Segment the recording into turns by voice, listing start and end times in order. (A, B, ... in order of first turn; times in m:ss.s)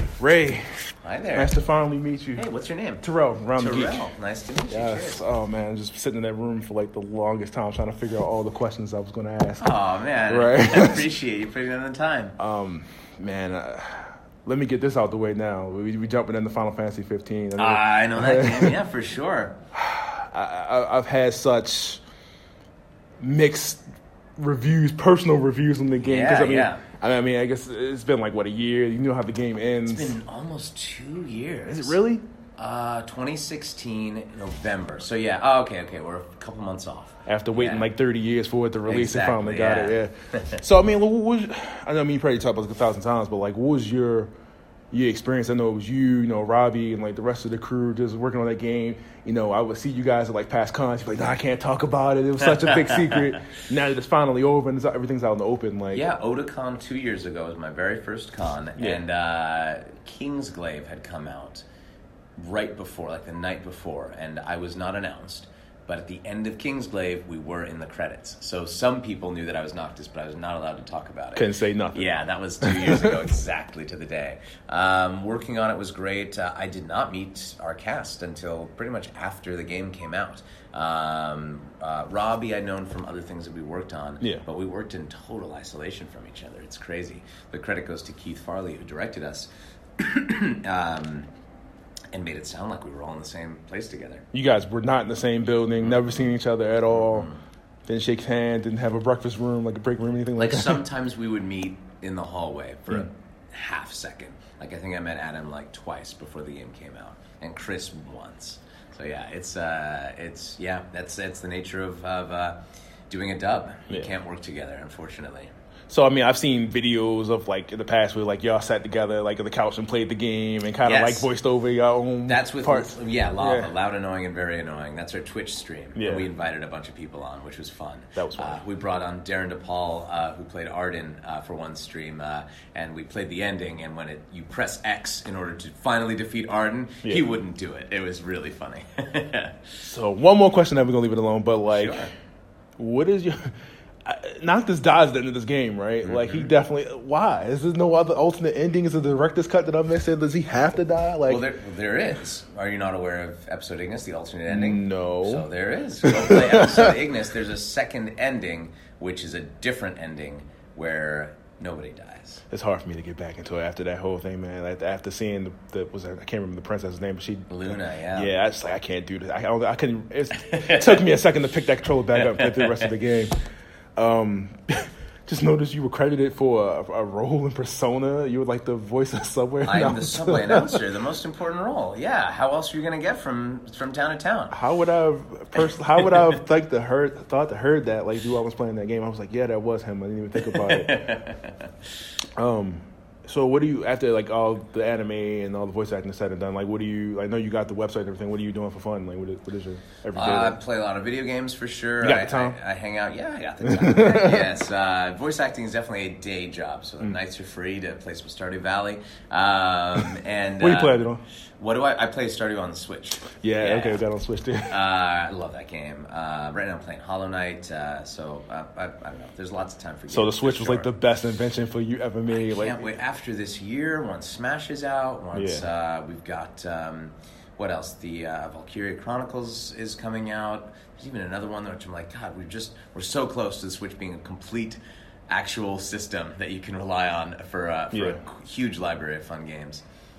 0:00.2-0:00.6 A
0:01.0-0:01.6 B
0:01.3-0:02.5 A
0:02.4-0:05.2 B
0:03.0-0:04.1 A
0:04.7-0:09.7 A
0:09.6-0:12.4 B
0:10.3-0:11.1 A
0:12.4-0:18.8 A
0:17.6-0:19.6 B
0:19.7-0:22.0 A
0:23.2-0:23.8 A
0:24.4-0:30.1 A
0:26.0-0:26.8 B
0:29.8-0:32.0 B
0:31.6-0:32.2 A
0:32.6-0:37.9 B
0:37.2-0:44.3 A
0:38.8-0:40.6 B
0:44.9-0:56.0 A
0:55.9-1:01.6 B
0:58.8-0:59.0 A
1:02.4-1:31.3 B
1:11.3-1:13.2 A
1:32.1-1:34.2 B
1:34.3-1:37.3 A
1:35.8-1:36.4 B
1:36.9-1:37.4 B
1:37.9-1:40.8 A
1:40.4-1:55.5 B
1:55.9-2:03.7 A
2:00.8-2:01.3 B
2:02.2-2:19.6 B
2:05.9-2:06.3 A
2:08.2-2:08.6 A
2:17.0-2:17.3 A
2:19.8-2:22.1 A
2:21.7-2:22.1 B
2:22.8-2:23.5 A
2:24.0-2:31.4 A
2:26.0-2:26.5 B
2:31.2-2:42.4 B
2:34.5-2:35.4 A
2:36.0-2:37.0 A
2:42.5-2:53.4 A
2:47.5-2:48.3 B
2:50.4-2:51.0 B
2:52.2-2:53.0 B
2:54.0-3:00.8 A
2:59.6-3:04.6 B
3:04.5-3:11.0 A
3:06.0-3:06.3 B
3:10.4-3:11.7 B
3:12.4-3:20.6 A
3:20.1-3:31.0 B
3:22.0-3:22.6 A
3:23.6-3:24.5 A
3:30.6-3:31.2 A
3:31.6-3:34.0 B
3:33.4-3:34.7 A
3:34.7-3:40.9 B
3:40.1-3:42.9 A
3:42.3-3:59.8 B
3:45.3-3:45.7 A
3:57.9-3:58.2 A